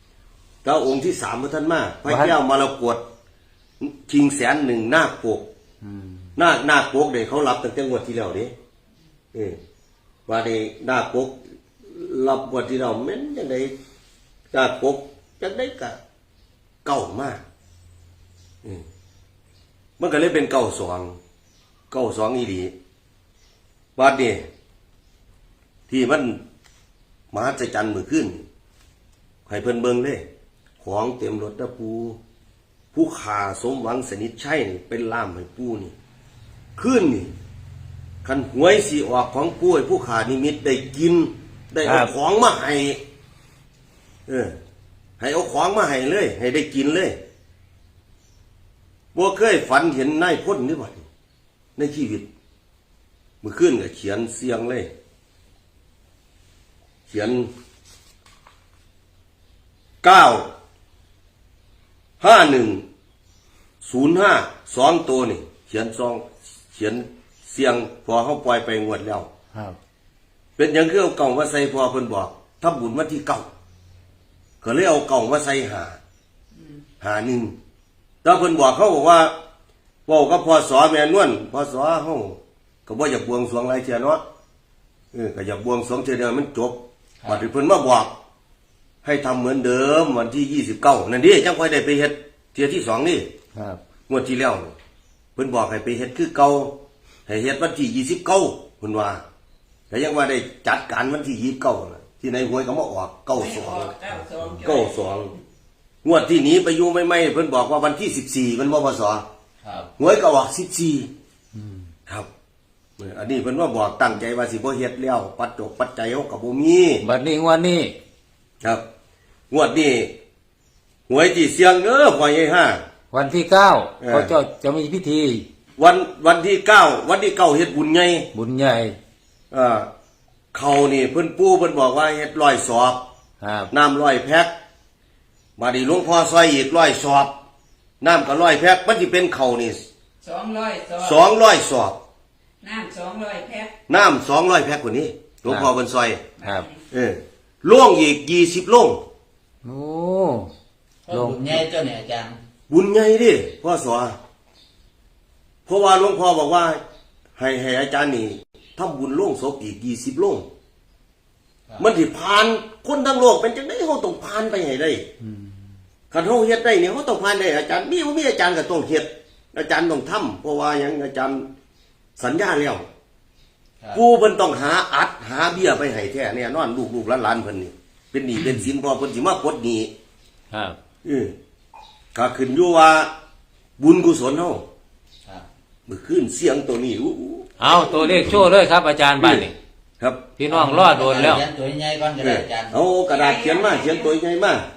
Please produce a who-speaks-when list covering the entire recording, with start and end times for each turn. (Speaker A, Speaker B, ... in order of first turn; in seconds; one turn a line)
Speaker A: 0.6-3.0
Speaker B: 2.1-2.4
Speaker A: 3.8-5.5
Speaker B: 5.8-6.2
Speaker A: 6.4-8.5
Speaker A: 9.3-9.6
Speaker A: 10.3-13.7
Speaker A: 14.5-16.0
Speaker A: 16.9-17.4
Speaker A: 20.0-21.2
Speaker A: 21.9-22.7
Speaker A: 24.0-24.4
Speaker A: 25.9-26.4
Speaker A: 27.3-28.4
Speaker A: 29.5-30.2
Speaker A: 30.8-32.2
Speaker A: 32.9-35.9
Speaker A: 36.8-37.3
Speaker A: 38.2-43.0
Speaker B: 41.8-42.1
Speaker A: 44.3-44.5
Speaker A: 45.2-47.2
Speaker A: 49.1-51.1
Speaker A: 51.8-52.3
Speaker A: 53.4-54.9
Speaker A: 57.1-57.5
Speaker A: 60.0-60.5
Speaker A: 62.2-62.9
Speaker A: 63.8-69.3
Speaker A: 70.6-73.5
Speaker A: 74.6-76.0
Speaker A: 77.0-77.5
Speaker A: 78.2-79.3
Speaker A: 80.1-84.2
Speaker A: 85.1-88.1
Speaker A: 89.0-93.3
Speaker B: 93.5-93.8
Speaker A: 94.1-94.7
Speaker A: 95.4-96.8
Speaker A: 97.3-99.2
Speaker A: 99.9-104.0
Speaker C: 103.4-105.0
Speaker A: 104.6-105.3
Speaker A: 106.0-109.2
Speaker D: 109.6-109.9
Speaker A: 110.0-111.1
Speaker B: 111.5-111.8
Speaker A: 113.0-117.0
Speaker B: 117.0-118.0
Speaker A: 119.5-120.1
Speaker A: 121.1-122.8
Speaker B: 123.1-125.5
Speaker A: 124.0-124.3
Speaker A: 125.8-128.3
Speaker B: 128.3-129.0
Speaker A: 129.5-129.9
Speaker A: 130.5-133.0
Speaker B: 133.4-133.7
Speaker A: 133.7-134.5
Speaker A: 135.6-137.3
Speaker A: 138.0-139.8
Speaker C: 140.2-141.2
Speaker A: 141.0-142.0
Speaker C: 142.6-143.7
Speaker A: 143.9-146.2
Speaker B: 146.4-146.7
Speaker A: 146.9-149.0
Speaker B: 149.7-150.5
Speaker D: 151.1-152.4
Speaker B: 151.1-151.7
Speaker A: 152.7-154.2
Speaker A: 155.7-156.8
Speaker A: 157.4-160.5
Speaker A: 161.8-165.1
Speaker B: 165.2-165.6
Speaker A: 166.1-171.5
Speaker A: 172.2-172.8
Speaker A: 173.9-179.9
Speaker B: 180.5-180.8
Speaker A: 181.0-181.3
Speaker A: 182.1-183.1
Speaker A: 183.8-184.6
Speaker A: 185.9-188.4
Speaker B: 187.6-189.5
Speaker A: 189.2-189.5
Speaker B: 190.4-191.4
Speaker D: 190.5-192.8
Speaker A: 192.2-194.7
Speaker C: 193.2-194.1